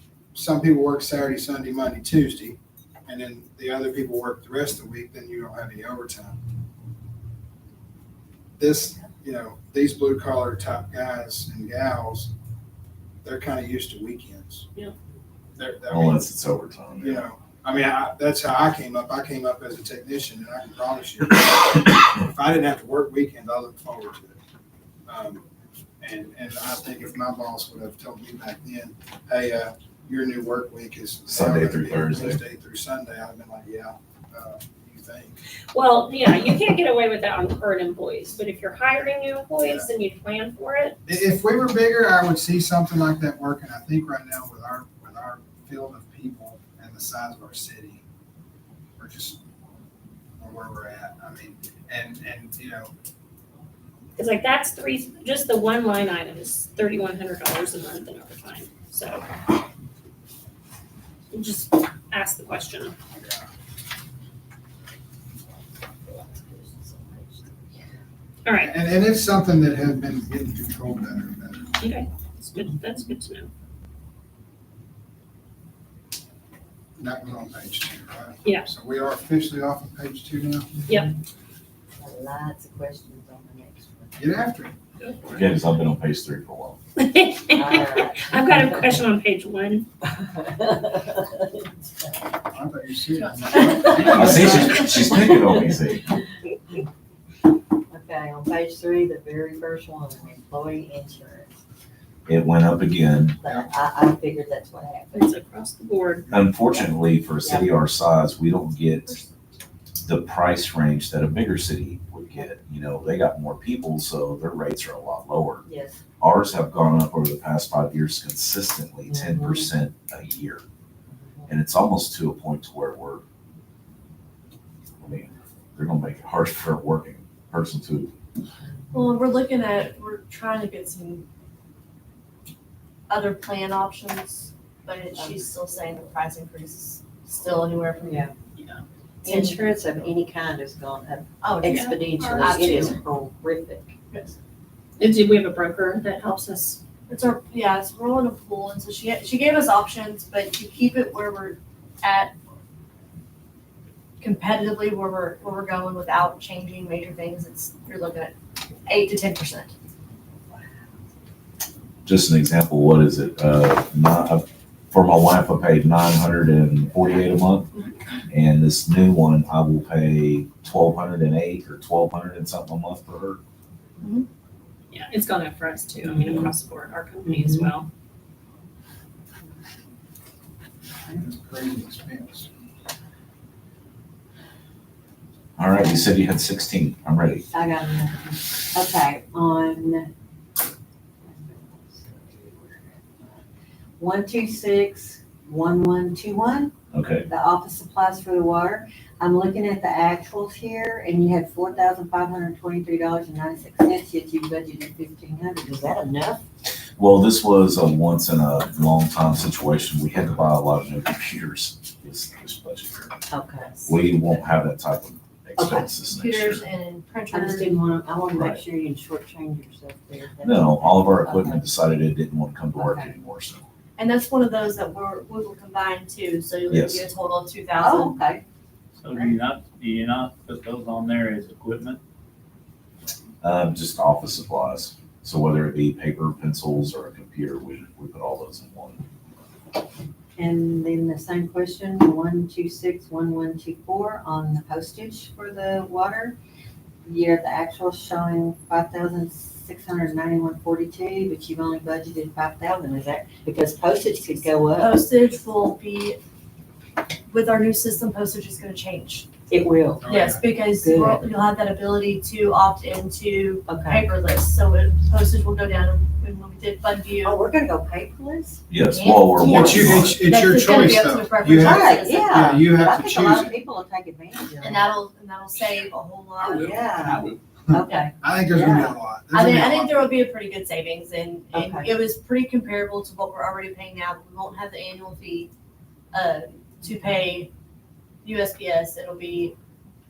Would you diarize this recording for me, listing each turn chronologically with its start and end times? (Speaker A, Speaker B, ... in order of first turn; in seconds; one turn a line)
Speaker A: 0.3-6.4
Speaker A: 8.6-12.3
Speaker A: 13.2-14.7
Speaker A: 15.6-16.3
Speaker B: 15.9-17.2
Speaker A: 17.0-24.4
Speaker A: 25.1-25.4
Speaker A: 26.0-35.4
Speaker B: 31.3-32.4
Speaker C: 35.7-41.0
Speaker A: 39.6-39.9
Speaker A: 41.1-48.0
Speaker A: 49.0-49.4
Speaker A: 50.4-52.9
Speaker C: 54.2-59.2
Speaker C: 61.3-63.0
Speaker A: 63.2-63.4
Speaker D: 66.1-66.9
Speaker C: 68.5-68.8
Speaker A: 68.6-71.7
Speaker C: 71.8-73.5
Speaker A: 77.0-80.7
Speaker D: 82.0-84.3
Speaker A: 84.2-84.8
Speaker C: 85.0-85.4
Speaker B: 85.3-86.8
Speaker C: 87.0-89.9
Speaker D: 87.5-89.0
Speaker D: 90.0-91.5
Speaker A: 92.5-95.0
Speaker D: 93.5-95.5
Speaker B: 94.1-96.2
Speaker D: 97.9-101.5
Speaker B: 102.3-103.4
Speaker D: 103.4-105.3
Speaker A: 103.4-103.7
Speaker C: 105.1-106.3
Speaker B: 106.3-109.1
Speaker D: 107.4-107.7
Speaker B: 110.0-115.7
Speaker D: 115.7-116.0
Speaker B: 116.2-120.6
Speaker D: 119.1-119.7
Speaker D: 121.2-121.5
Speaker B: 121.5-123.2
Speaker B: 125.0-128.1
Speaker D: 128.8-129.1
Speaker E: 128.9-131.2
Speaker E: 133.1-138.3
Speaker D: 135.2-135.4
Speaker D: 138.1-138.3
Speaker C: 138.6-138.8
Speaker D: 139.2-144.0
Speaker E: 139.3-139.6
Speaker E: 141.4-143.0
Speaker C: 141.7-142.7
Speaker C: 145.0-146.8
Speaker E: 147.1-152.3
Speaker E: 154.2-158.3
Speaker E: 158.9-159.7
Speaker B: 162.1-167.7
Speaker E: 167.7-168.2
Speaker B: 168.3-173.4
Speaker E: 174.0-174.3
Speaker C: 174.9-177.9
Speaker D: 177.3-177.7
Speaker A: 181.1-182.5
Speaker B: 185.6-187.4
Speaker D: 187.5-190.1
Speaker D: 191.3-192.9
Speaker D: 194.0-196.7
Speaker B: 196.9-197.3
Speaker D: 197.3-206.4
Speaker B: 207.0-213.2
Speaker D: 213.3-213.9
Speaker B: 213.9-216.6
Speaker D: 215.6-215.9
Speaker E: 215.8-217.8
Speaker D: 217.3-221.6
Speaker B: 218.3-218.6
Speaker B: 220.4-223.7
Speaker D: 222.8-223.1
Speaker E: 224.0-228.2
Speaker B: 226.7-227.0
Speaker D: 227.8-228.4
Speaker F: 228.9-232.0
Speaker B: 233.4-239.0
Speaker D: 240.4-246.4
Speaker D: 247.1-255.0
Speaker E: 254.8-256.2
Speaker E: 257.3-259.3
Speaker D: 259.5-260.1
Speaker A: 260.0-260.4
Speaker E: 260.1-267.4
Speaker D: 260.7-261.3
Speaker D: 263.7-264.1
Speaker D: 267.2-268.6
Speaker B: 268.7-270.2
Speaker E: 268.9-272.3
Speaker D: 269.4-270.1
Speaker A: 269.5-273.6
Speaker D: 271.6-275.0
Speaker E: 274.6-277.3
Speaker D: 276.4-279.0
Speaker A: 278.2-280.1
Speaker E: 279.3-285.5
Speaker D: 281.5-281.9
Speaker E: 286.1-287.5
Speaker E: 288.2-289.5